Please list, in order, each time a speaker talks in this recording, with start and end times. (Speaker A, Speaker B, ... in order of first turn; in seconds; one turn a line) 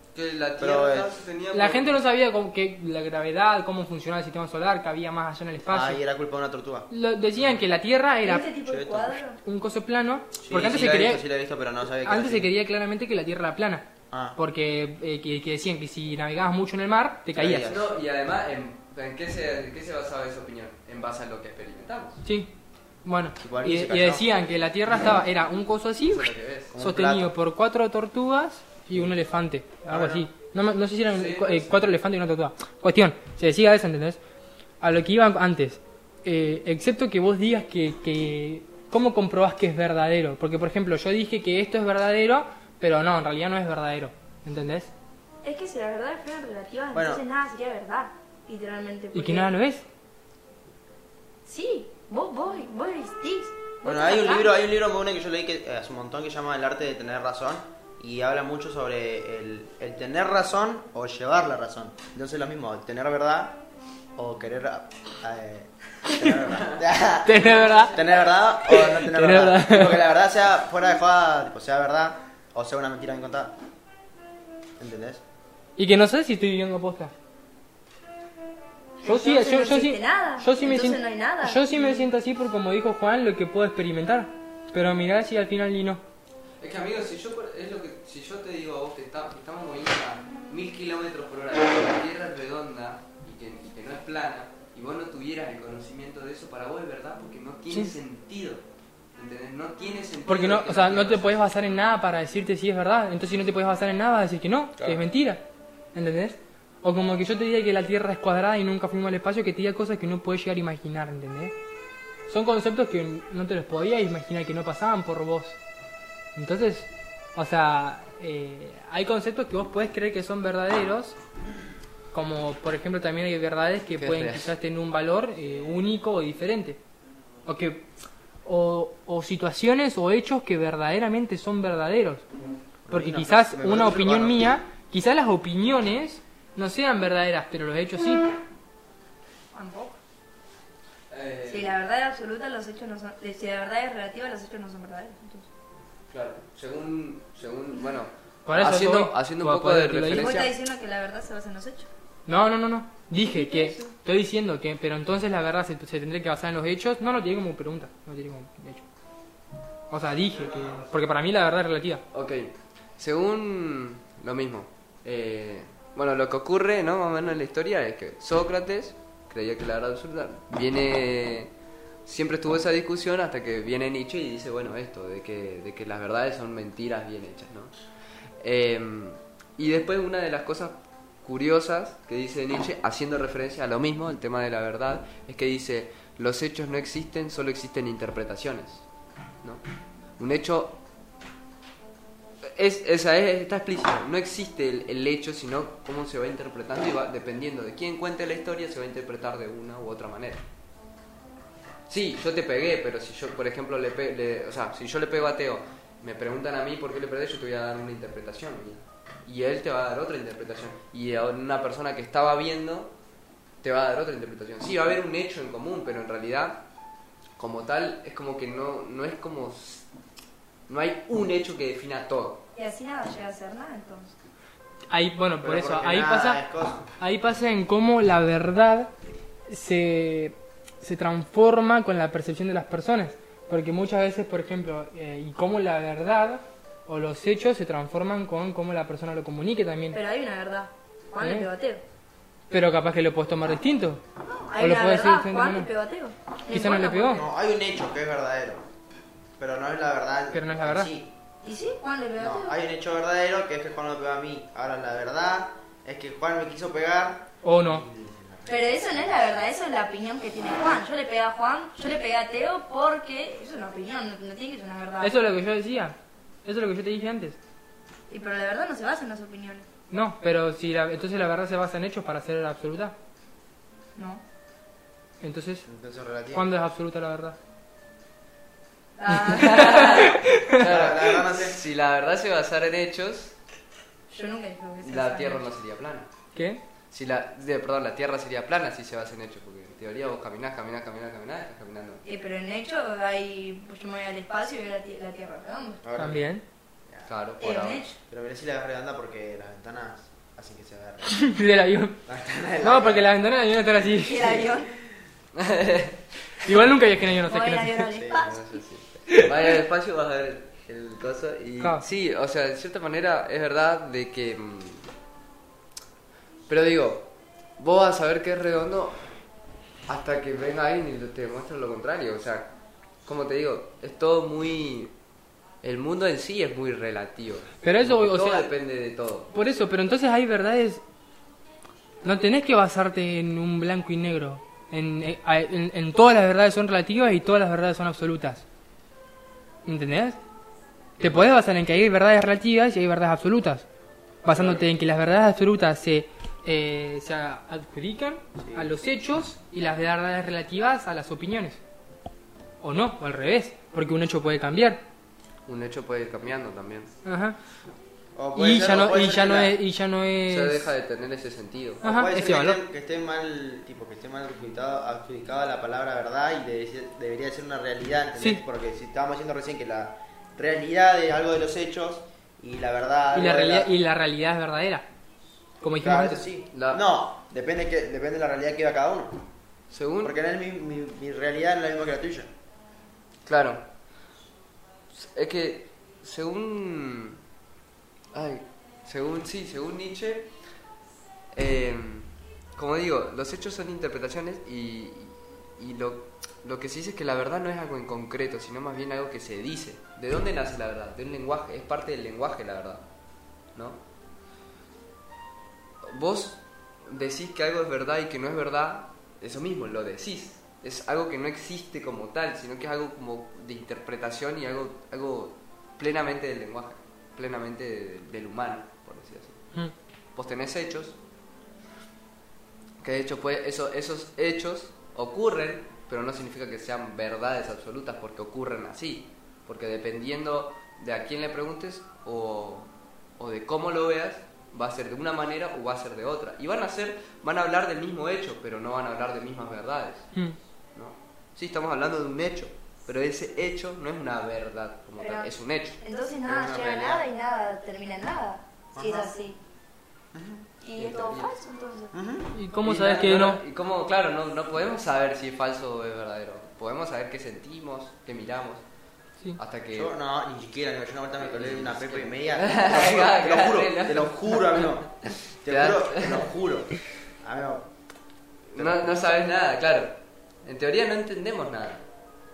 Speaker A: 0.1-2.0
Speaker B: 0.6-1.1
Speaker C: 1.5-6.0
Speaker B: 5.7-6.9
Speaker C: 6.9-8.5
Speaker D: 8.2-9.4
Speaker B: 8.7-9.2
Speaker C: 9.4-11.2
Speaker B: 10.4-12.5
Speaker C: 12.0-17.7
Speaker B: 14.1-14.4
Speaker B: 17.3-17.9
Speaker A: 17.7-22.2
Speaker C: 22.2-22.5
Speaker C: 23.0-34.2
Speaker B: 23.4-24.3
Speaker A: 26.1-26.7
Speaker B: 26.7-27.3
Speaker B: 29.9-30.3
Speaker A: 31.1-31.9
Speaker C: 34.8-44.9
Speaker D: 45.4-49.5
Speaker B: 46.9-47.2
Speaker C: 49.1-49.9
Speaker D: 51.5-54.5
Speaker B: 53.8-63.6
Speaker B: 64.2-73.5
Speaker C: 66.1-66.3
Speaker C: 67.2-67.9
Speaker A: 67.3-68.1
Speaker C: 68.6-70.0
Speaker B: 74.8-75.2
Speaker C: 75.8-77.1
Speaker D: 79.0-82.1
Speaker C: 79.0-86.0
Speaker A: 86.6-98.6
Speaker A: 99.2-101.4
Speaker C: 100.3-111.5
Speaker C: 112.3-115.6
Speaker C: 116.4-121.2
Speaker C: 122.1-126.8
Speaker A: 124.0-124.5
Speaker C: 127.5-127.9
Speaker C: 128.4-132.2
Speaker B: 132.9-134.6
Speaker C: 132.9-138.3
Speaker D: 139.5-140.0
Speaker A: 141.1-141.8
Speaker D: 141.5-145.5
Speaker A: 146.1-150.5
Speaker C: 148.5-150.5
Speaker D: 150.1-151.9
Speaker C: 152.3-158.8
Speaker D: 153.2-153.9
Speaker C: 159.9-162.0
Speaker B: 160.3-160.9
Speaker A: 162.1-171.5
Speaker A: 172.1-177.7
Speaker A: 178.4-188.8
Speaker A: 190.2-190.8
Speaker A: 192.4-200.4
Speaker A: 201.9-212.9
Speaker A: 213.6-216.6
Speaker A: 217.4-219.9
Speaker A: 220.7-222.4
Speaker D: 222.6-224.1
Speaker C: 224.9-226.4
Speaker B: 225.4-226.8
Speaker C: 227.0-228.9
Speaker C: 229.5-240.0
Speaker D: 239.9-241.8
Speaker C: 241.2-241.5
Speaker C: 242.5-244.0
Speaker D: 244.2-247.3
Speaker C: 244.6-245.7
Speaker C: 246.5-247.2
Speaker B: 247.1-248.6
Speaker B: 249.4-251.1
Speaker C: 250.3-250.9
Speaker D: 251.4-252.6
Speaker B: 252.2-259.4
Speaker C: 257.4-257.9
Speaker D: 258.5-265.1
Speaker C: 265.0-267.4
Speaker D: 268.1-269.7
Speaker C: 269.9-272.9
Speaker D: 273.9-274.2
Speaker C: 275.2-275.7
Speaker B: 275.7-276.5
Speaker C: 276.3-277.4
Speaker D: 279.0-280.1
Speaker A: 279.2-283.4
Speaker C: 279.3-280.6
Speaker B: 280.5-281.6
Speaker D: 284.1-285.5
Speaker A: 284.8-286.1
Speaker C: 286.4-286.6
Speaker A: 286.9-292.0
Speaker D: 292.1-295.8
Speaker B: 295.8-296.3
Speaker C: 296.0-296.4
Speaker A: 297.1-297.9
Speaker D: 297.4-297.9
Speaker B: 298.1-301.2
Speaker C: 301.1-302.0
Speaker B: 302.1-303.1
Speaker C: 302.6-304.4
Speaker D: 303.9-304.7
Speaker A: 305.3-306.0
Speaker C: 306.4-307.9
Speaker D: 307.2-308.5
Speaker B: 307.9-308.3
Speaker A: 308.1-314.9
Speaker C: 311.6-311.9
Speaker A: 316.5-319.0
Speaker A: 319.9-322.5
Speaker A: 323.1-324.9
Speaker A: 325.6-329.3
Speaker C: 327.6-328.5
Speaker C: 329.3-330.8
Speaker C: 332.0-338.4
Speaker C: 339.6-340.2
Speaker C: 341.0-343.6
Speaker C: 344.2-351.6
Speaker B: 344.3-344.6
Speaker B: 348.4-348.7
Speaker C: 352.6-354.8
Speaker A: 355.5-356.9
Speaker C: 357.1-357.4
Speaker B: 358.2-359.6
Speaker C: 358.4-360.7
Speaker A: 360.3-361.9
Speaker C: 361.8-362.6
Speaker B: 361.8-373.7
Speaker C: 373.1-374.9
Speaker C: 375.6-376.2
Speaker B: 375.8-379.2
Speaker A: 376.5-376.8
Speaker A: 379.7-380.2
Speaker B: 380.0-382.3
Speaker A: 383.3-383.6
Speaker A: 384.9-387.2
Speaker A: 388.1-390.3
Speaker A: 391.4-402.9
Speaker A: 403.6-403.8
Speaker A: 405.8-419.4
Speaker A: 420.1-421.0
Speaker A: 422.8-440.1
Speaker A: 440.8-445.8
Speaker D: 445.0-449.4
Speaker B: 446.3-447.0
Speaker B: 448.8-449.1
Speaker B: 450.1-450.4
Speaker D: 450.6-451.9
Speaker A: 450.8-451.3
Speaker B: 451.9-452.3
Speaker C: 452.3-453.4
Speaker A: 452.6-458.6
Speaker A: 459.4-459.9
Speaker B: 459.7-467.7
Speaker A: 461.2-466.3
Speaker A: 468.5-471.9
Speaker B: 468.6-468.9